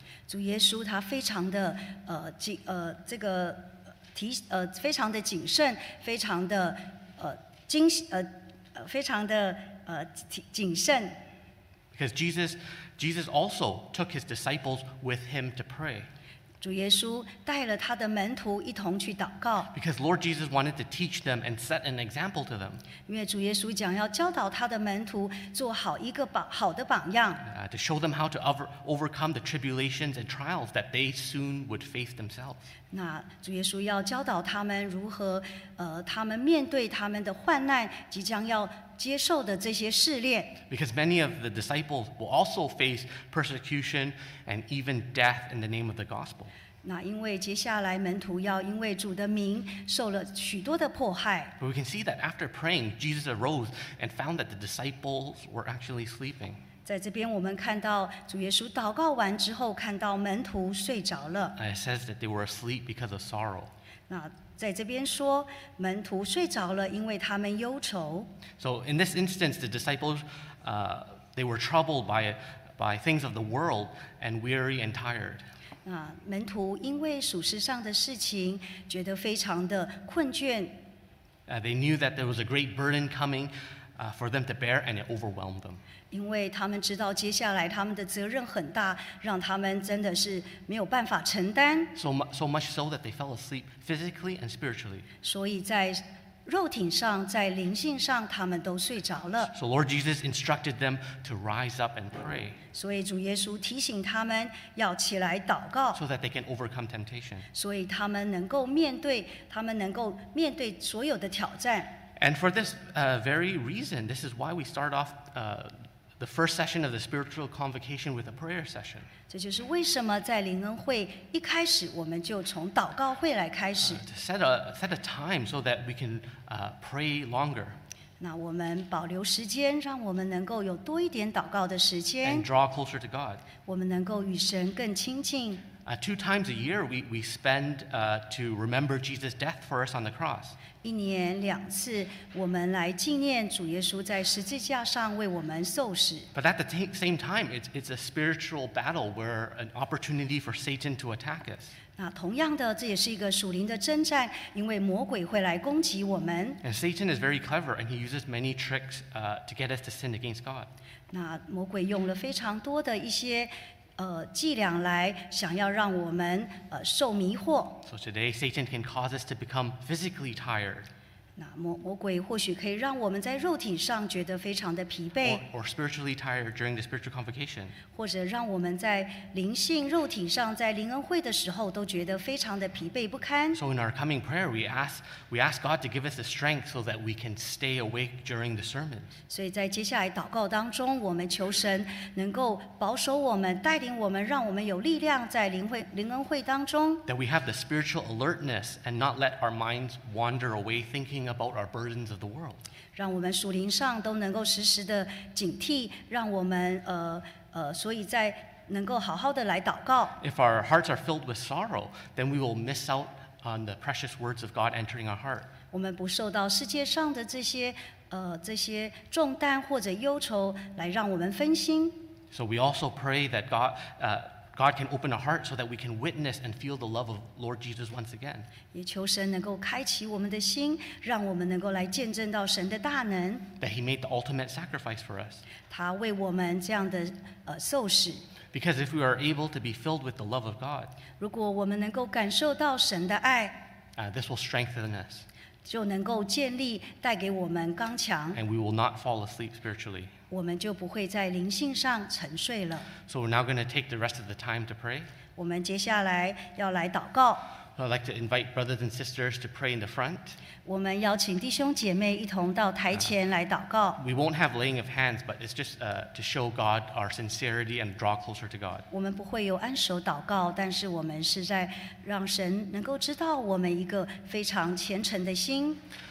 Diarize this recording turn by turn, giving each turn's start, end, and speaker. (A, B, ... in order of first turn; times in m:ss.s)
0:00.3-0:11.2 A
0:11.9-0:16.1 B
0:16.6-0:19.7 A
0:19.7-0:22.8 B
0:23.1-0:27.4 A
0:27.4-0:32.6 B
0:32.9-0:40.6 A
0:40.7-0:46.5 B
0:46.8-0:51.5 A
0:51.6-0:56.6 B
0:56.8-1:01.6 A
1:01.6-1:03.7 B
1:04.1-1:08.3 A
1:08.6-1:15.4 B
1:15.8-1:20.8 A
1:21.5-1:25.8 B
1:26.1-1:31.9 A
1:32.0-1:35.1 B
1:35.2-1:39.5 A
1:39.5-1:42.6 B
1:42.7-1:46.0 A
1:45.9-1:47.5 B
1:47.5-1:52.0 A
1:52.2-1:59.1 B
1:59.3-2:04.0 A
2:03.8-2:07.8 B
2:08.2-2:12.5 A
2:12.2-2:13.4 B
2:13.7-2:15.6 A
2:15.9-2:20.6 B
2:20.8-2:26.3 A
2:26.3-2:31.7 B
2:32.0-2:36.6 A
2:36.6-2:40.7 B
2:41.1-2:47.8 A
2:47.8-2:50.9 B
2:51.4-2:55.4 A
2:55.2-2:57.8 B
2:57.9-3:03.6 A
3:03.5-3:09.1 B
3:09.3-3:17.0 A
3:17.1-3:22.6 B
3:23.0-3:30.2 A
3:30.2-3:35.5 B
3:35.7-3:42.0 A
3:42.3-3:48.5 B
3:48.7-3:53.5 A
3:53.6-3:55.4 B
3:55.7-3:58.2 A
3:58.5-4:00.9 B
4:01.2-4:03.7 A
4:04.0-4:05.2 B
4:05.7-4:08.4 A
4:08.3-4:10.1 B
4:10.3-4:12.9 A
4:13.1-4:15.1 B
4:15.4-4:17.5 A
4:17.8-4:20.4 B
4:20.6-4:24.0 A
4:24.0-4:28.9 B
4:28.9-4:35.8 A